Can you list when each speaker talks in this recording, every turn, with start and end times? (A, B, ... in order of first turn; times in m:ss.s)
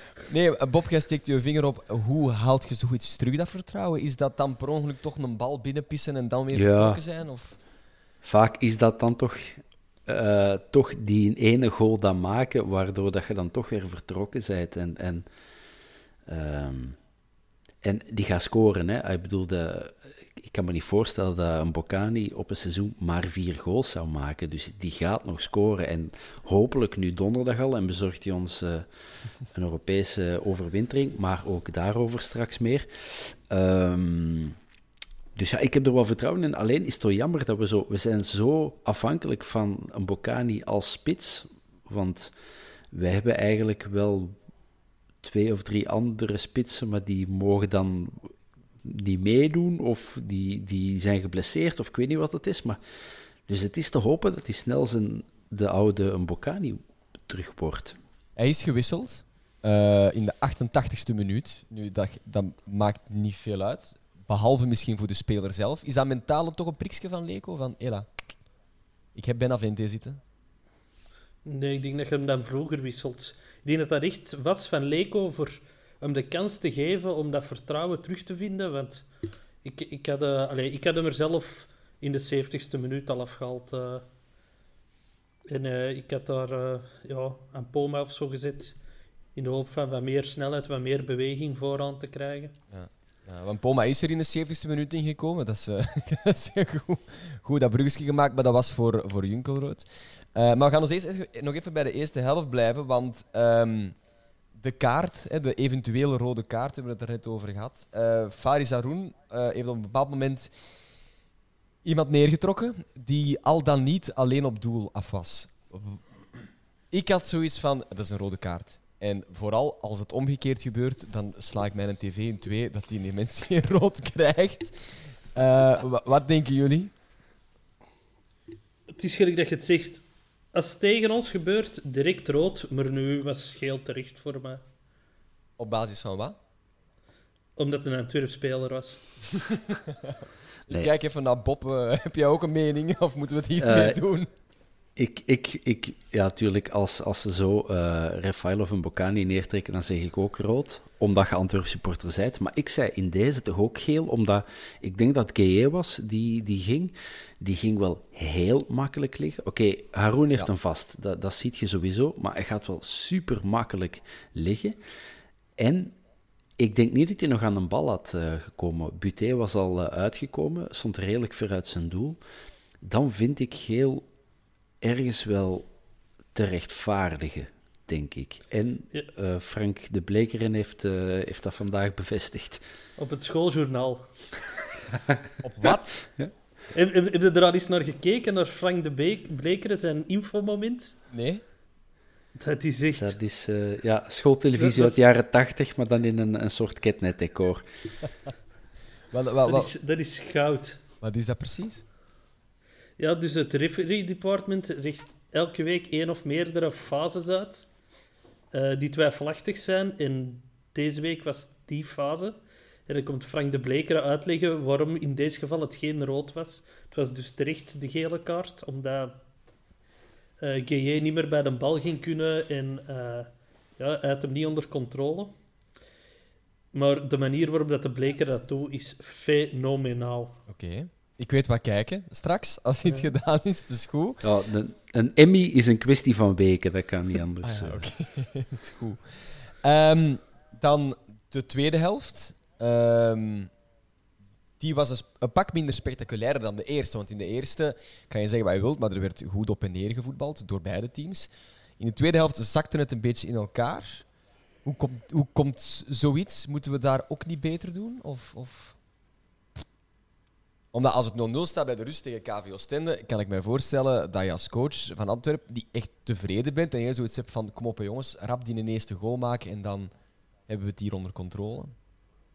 0:00.3-0:07.6 A
0:06.5-0:07.0 B
0:08.2-0:15.3 B
0:16.3-0:17.0 B
0:17.8-0:28.9 B
0:29.4-0:34.6 B
0:35.4-0:42.3 B
0:42.9-0:44.4 B
0:45.2-0:48.3 B
0:48.8-0:52.8 B
0:53.5-0:58.0 B
0:58.4-1:08.1 A
1:09.2-1:10.2 A
1:11.4-1:19.1 C
1:19.6-1:24.0 C
1:25.5-1:28.8 C
1:29.4-1:32.6 C
1:32.7-1:44.0 A
1:44.6-1:50.5 A
1:51.8-1:56.0 A
1:56.9-2:06.9 A
2:09.0-2:14.6 C
2:15.6-2:16.4 A
2:17.6-2:19.0 C
2:19.5-2:20.2 A
2:20.7-2:24.3 A
2:23.6-2:24.0 B
2:25.0-2:44.8 B
2:45.6-2:46.0 B
2:46.6-2:52.2 B
2:52.8-2:54.0 B
2:54.8-2:55.7 B
2:56.4-3:02.6 B
3:03.0-3:04.1 C
3:05.4-3:06.0 A
3:06.7-3:11.0 C
3:11.1-3:11.4 A
3:12.4-3:13.2 C
3:13.0-3:17.6 B
3:14.6-3:15.0 C
3:19.1-3:19.7 A
3:19.5-3:20.8 C
3:21.0-3:21.8 A
3:23.0-3:27.7 C
3:28.5-3:32.4 C
3:32.9-3:39.2 C
3:40.4-3:45.3 C
3:46.7-3:50.4 C
3:50.5-3:54.2 A
3:54.2-3:57.9 B
3:57.4-4:03.5 A
4:04.6-4:14.0 A
4:14.6-4:18.8 A
4:20.7-4:29.9 A
4:30.5-4:31.8 A